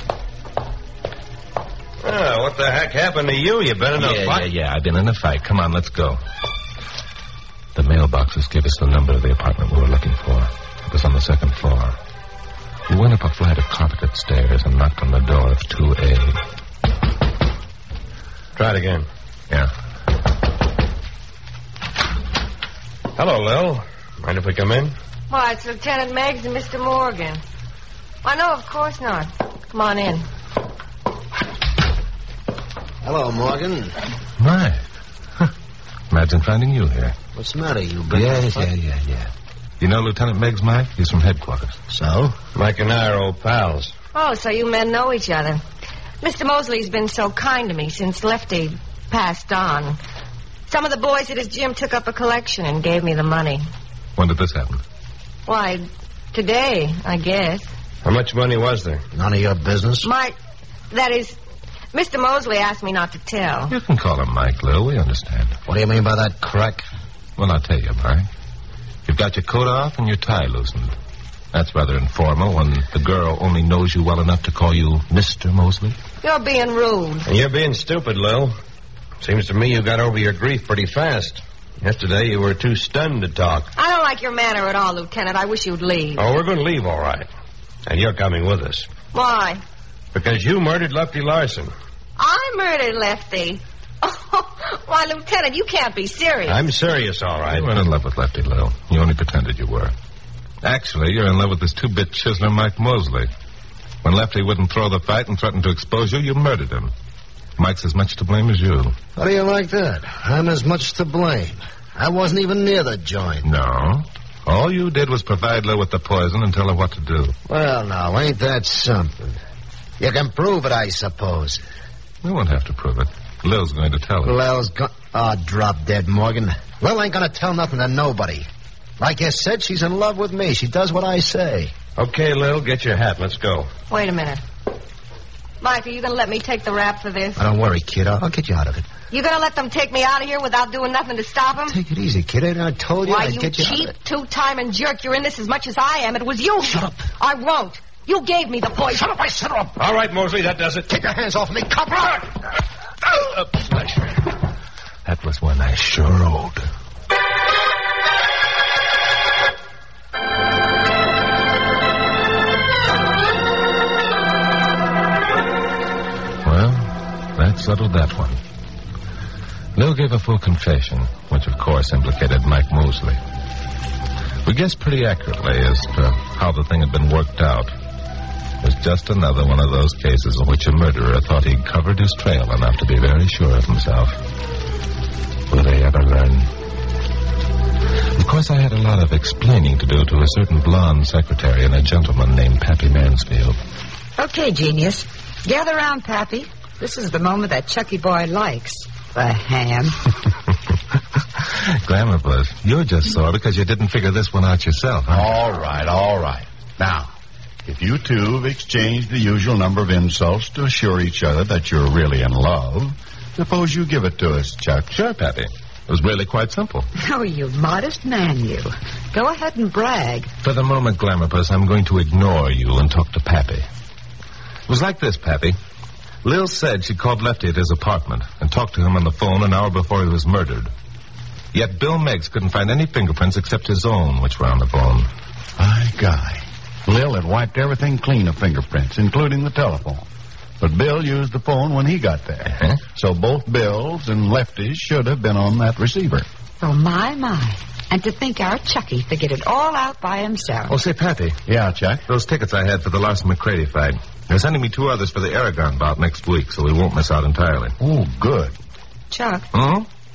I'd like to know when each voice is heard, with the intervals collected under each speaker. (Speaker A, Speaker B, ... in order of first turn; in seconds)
Speaker A: 2.0-4.5, 18.6-19.1, 23.2-24.9, 42.5-43.9, 58.0-59.0, 77.3-78.5, 79.2-83.7, 86.2-87.3, 87.9-88.9, 90.1-91.7, 96.5-97.7, 132.0-133.7, 149.8-150.9, 153.2-154.0
Speaker B: 4.0-6.2, 7.8-12.0, 12.9-16.4, 34.4-34.8, 36.1-37.2, 38.1-41.8, 54.2-54.8, 63.7-65.6, 67.4-68.3, 69.1-71.0, 71.5-76.0, 97.5-99.9, 100.6-103.3, 104.0-106.9, 107.6-109.0, 113.4-117.3, 122.2-124.4, 155.1-156.7, 166.4-168.4, 169.8-173.2, 174.4-177.7, 178.6-184.2, 185.5-186.5, 188.2-193.6, 201.4-205.3, 214.9-216.9, 220.4-223.7, 224.7-225.6, 226.2-230.7, 231.5-235.1, 242.6-242.8, 250.7-251.4, 252.1-257.8, 259.5-259.9
Speaker C: 25.3-27.4, 28.2-30.3, 44.1-45.6, 46.2-50.0, 50.7-53.6, 55.5-57.7, 60.0-60.4, 60.9-61.4, 61.9-63.8, 76.2-77.3, 83.8-86.2, 89.1-89.6, 92.2-96.6, 133.9-134.4, 135.6-137.4, 139.1-141.8, 143.1-149.1
Speaker D: 33.0-34.0, 37.4-38.7, 41.9-42.4, 59.1-60.1, 65.7-66.9, 109.2-113.5, 117.5-119.4, 120.0-121.6, 124.2-128.5, 129.0-131.7, 137.4-138.9, 141.7-143.9, 146.6-147.1, 149.1-149.8, 150.9-152.3
Speaker E: 194.2-200.1, 217.0-220.3, 246.6-250.8, 259.1-259.5
Speaker F: 205.1-207.1, 207.7-214.9, 235.6-240.1, 240.6-246.3, 251.5-252.0, 257.8-258.6